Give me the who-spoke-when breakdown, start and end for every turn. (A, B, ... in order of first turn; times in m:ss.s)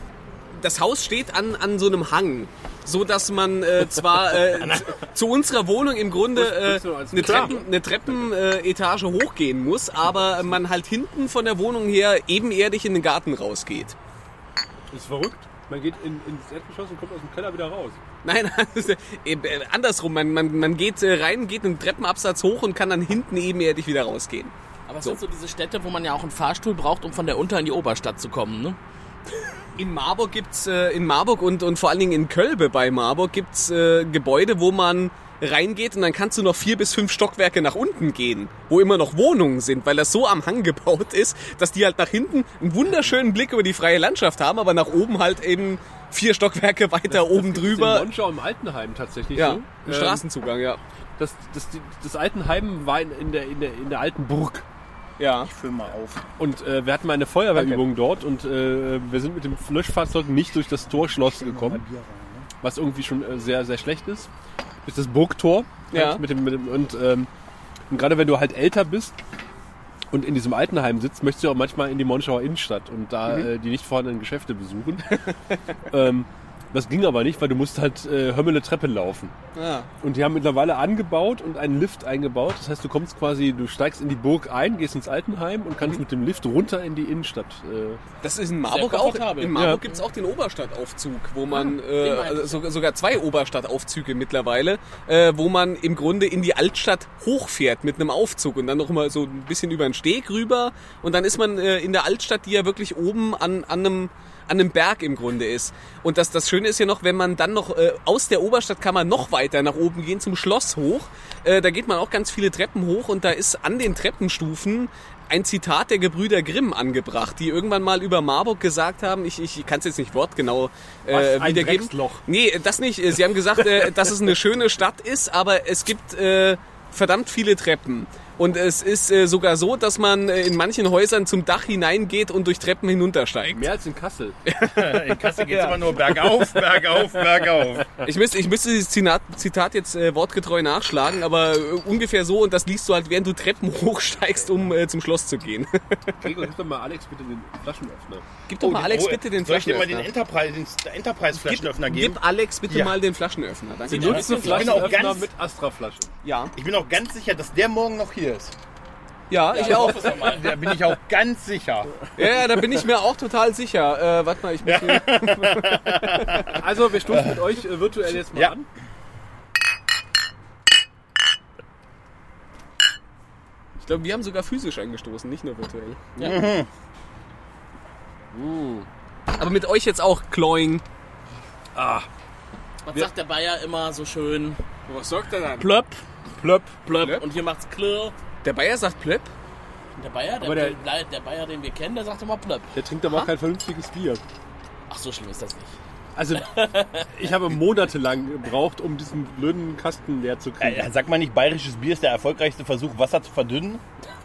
0:00.5-0:14.0 A
0:04.4-0:04.9 B
0:06.3-0:07.6 C
0:07.2-0:07.6 B
0:14.9-0:18.0 C
0:18.2-0:25.2 A
0:24.9-0:28.8 D
0:29.8-0:48.1 A
0:47.1-0:50.2 C
0:49.4-0:50.8 A
0:51.2-0:54.6 C
0:55.2-0:55.5 A
0:55.4-0:56.2 B
0:56.4-1:01.8 C
0:57.6-0:57.8 A
1:01.2-1:02.5 B
1:02.6-1:04.3 C
1:04.8-1:07.3 C
1:05.9-1:06.2 A
1:07.9-1:09.2 C
1:10.1-1:15.2 C
1:15.9-1:19.3 C
1:19.6-1:19.9 A
1:20.0-1:28.0 C
1:28.2-2:13.7 A
1:28.7-1:29.8 D
1:29.6-1:29.8 C
1:31.5-1:32.7 D
2:01.1-2:02.2 C
2:13.5-2:14.4 C
2:14.6-2:17.9 B
2:15.5-2:16.2 A
2:18.0-2:26.2 A
2:26.2-2:28.2 C
2:28.5-2:30.1 A
2:28.6-2:33.0 B
2:31.3-2:34.7 A
2:33.9-2:35.0 D
2:33.9-2:36.1 C
2:34.3-2:35.3 B
2:36.2-2:36.5 A
2:36.5-2:38.6 B
2:39.3-2:40.5 A
2:39.5-2:40.6 D
2:39.7-2:41.9 B
2:42.2-2:46.5 A
2:44.6-2:46.6 B
2:46.5-2:48.7 C
2:48.2-2:48.5 B
2:53.8-2:56.4 A
2:56.2-2:56.7 B
2:58.3-2:58.9 C
2:59.4-3:00.8 A
3:01.8-3:02.1 C
3:02.9-3:04.6 D
3:04.9-3:05.7 A
3:05.6-3:06.0 D
3:06.4-3:06.8 C
3:06.8-3:08.2 D
3:07.0-3:07.2 A
3:08.4-3:09.3 A
3:10.0-3:12.8 D
3:10.4-3:10.8 C
3:12.7-3:14.2 C
3:14.9-3:15.7 D
3:16.2-3:20.9 C
3:16.3-3:17.1 D
3:20.6-3:23.8 B